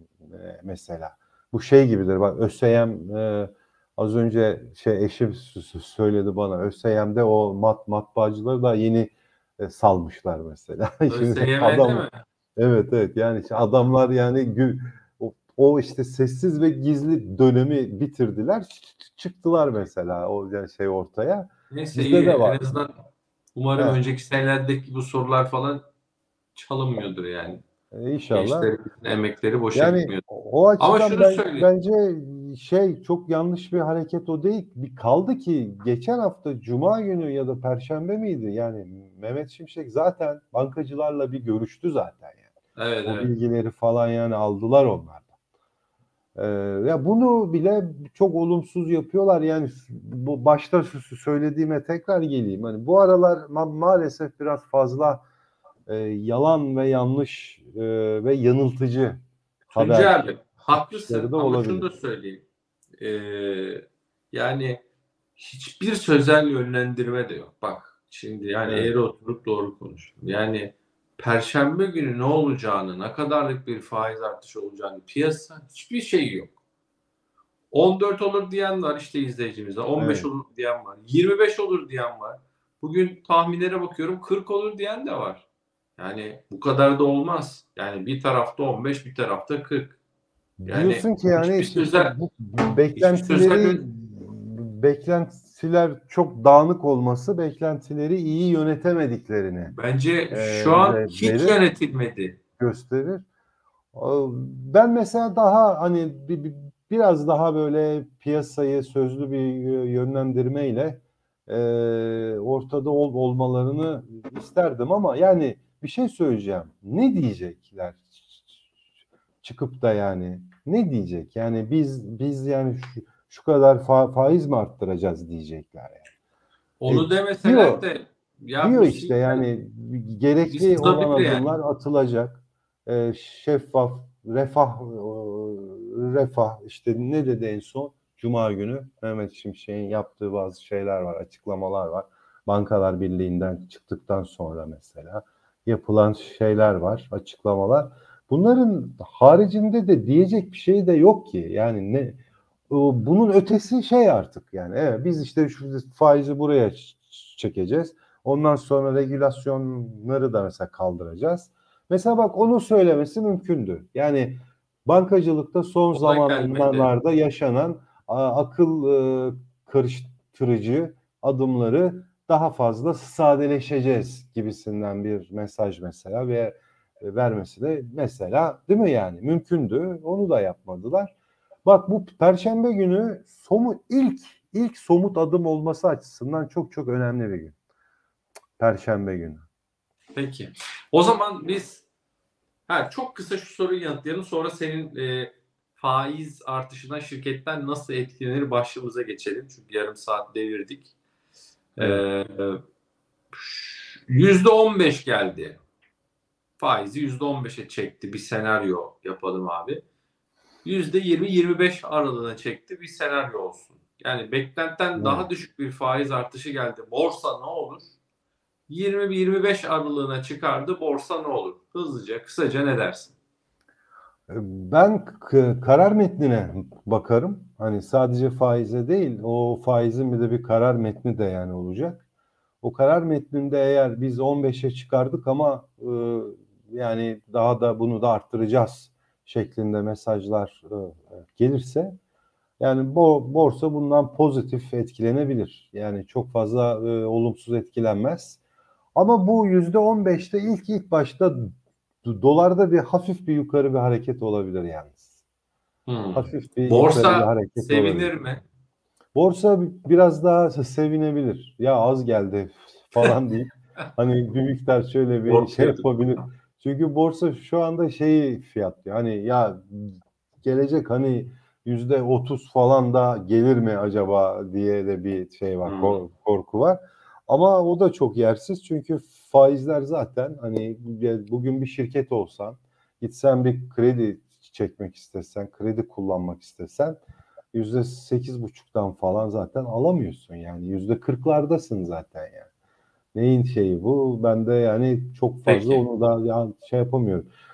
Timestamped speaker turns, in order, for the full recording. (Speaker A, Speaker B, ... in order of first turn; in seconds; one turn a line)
Speaker A: 0.2-22.7
Speaker B: 11.1-12.2
Speaker B: 21.7-22.9
Speaker B: 23.6-25.9
Speaker B: 26.6-27.6
Speaker A: 27.9-28.7
Speaker B: 28.3-30.2
Speaker A: 29.7-42.4
Speaker B: 30.8-31.7
Speaker B: 42.8-43.3
Speaker A: 43.0-45.3
Speaker A: 46.4-55.2
Speaker A: 55.9-59.2
Speaker B: 59.7-62.4
Speaker A: 59.8-60.2
Speaker A: 60.7-61.9
Speaker B: 63.0-64.8
Speaker B: 65.4-76.5
Speaker A: 68.7-68.9
Speaker B: 77.7-85.5
Speaker A: 80.0-80.3
Speaker B: 86.0-90.0
Speaker A: 90.6-99.7
Speaker B: 90.7-92.2
Speaker B: 92.9-93.8
Speaker B: 99.7-102.4
Speaker A: 100.3-101.6
Speaker A: 102.6-103.2
Speaker A: 103.9-118.6
Speaker A: 119.4-126.1
Speaker B: 126.8-129.5
Speaker A: 126.9-127.9
Speaker A: 128.6-181.1
Speaker B: 130.5-131.5
Speaker B: 165.9-166.9
Speaker A: 181.7-187.5
Speaker A: 188.6-189.4
Speaker B: 190.2-191.8
Speaker B: 192.7-200.9
Speaker B: 201.8-202.6
Speaker A: 201.8-202.0
Speaker B: 203.3-205.6
Speaker B: 206.6-209.8
Speaker B: 210.6-217.9
Speaker A: 215.0-215.3
Speaker B: 218.7-223.2
Speaker A: 224.3-232.0
Speaker A: 232.6-242.0
Speaker A: 242.6-248.4
Speaker A: 248.9-251.5
Speaker A: 252.0-255.1
Speaker B: 255.9-258.4
Speaker A: 256.1-258.1
Speaker A: 259.1-287.0
Speaker B: 265.3-265.9
Speaker B: 275.6-276.0
Speaker A: 287.5-292.5
Speaker A: 293.1-297.3
Speaker B: 295.5-295.9